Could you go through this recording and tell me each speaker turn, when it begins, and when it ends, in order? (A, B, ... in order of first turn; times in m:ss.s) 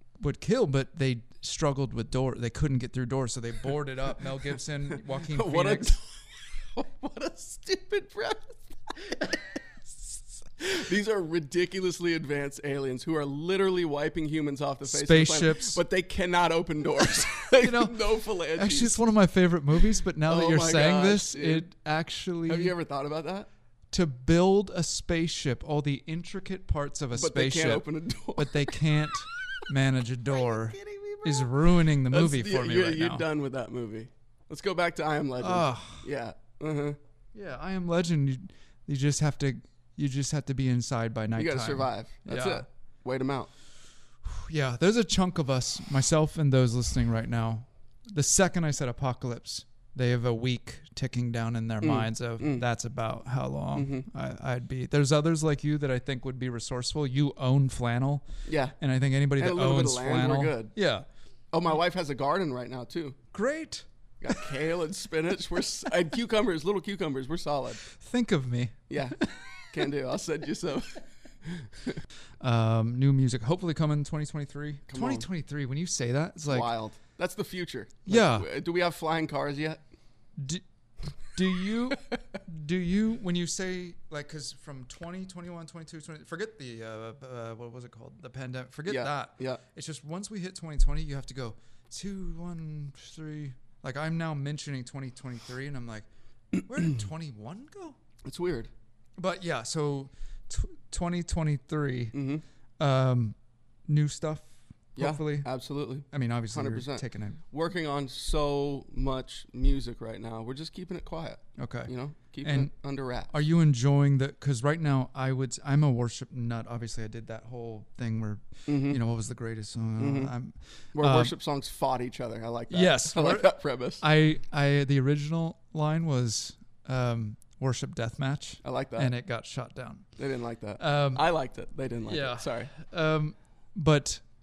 0:00.2-0:06.0 A
0:05.1-0:09.4 B
0:10.0-0:19.0 B
0:14.8-0:15.8 A
0:17.6-0:22.7 A
0:20.2-0:21.7 B
0:22.5-0:23.5 B
0:23.9-0:33.3 A
0:27.1-0:29.6 B
0:30.4-0:31.5 B
0:32.1-0:37.0 B
0:35.4-0:36.0 A
0:37.3-0:42.6 A
0:41.4-0:43.5 B
0:44.2-0:58.2 A
0:51.8-0:52.6 B
0:53.8-0:54.1 B
0:58.5-0:58.8 B
0:58.8-1:01.1 A
0:59.4-1:00.7 B
1:01.5-1:03.2 B
1:03.3-1:04.4 A
1:04.2-1:07.8 B
1:07.9-1:09.9 A
1:08.9-1:12.0 B
1:12.4-1:16.7 A
1:14.9-1:15.3 B
1:16.5-1:19.8 B
1:18.1-1:18.5 A
1:20.4-1:20.6 A
1:21.2-1:36.1 A
1:28.9-1:29.6 B
1:36.6-1:38.0 A
1:38.2-1:38.7 B
1:39.2-1:42.2 A
1:42.1-1:42.4 B
1:42.8-1:43.4 A
1:43.9-1:45.5 A
1:45.0-1:53.3 B
1:46.1-1:47.4 A
1:51.6-1:51.9 A
1:52.4-1:52.7 A
1:53.3-2:01.3 A
1:58.7-1:59.0 B
2:00.0-2:00.3 B
2:01.0-2:04.0 B
2:02.7-2:10.1 A
2:08.6-2:09.1 B
2:10.2-2:12.7 B
2:10.8-2:11.2 A
2:12.1-2:14.2 A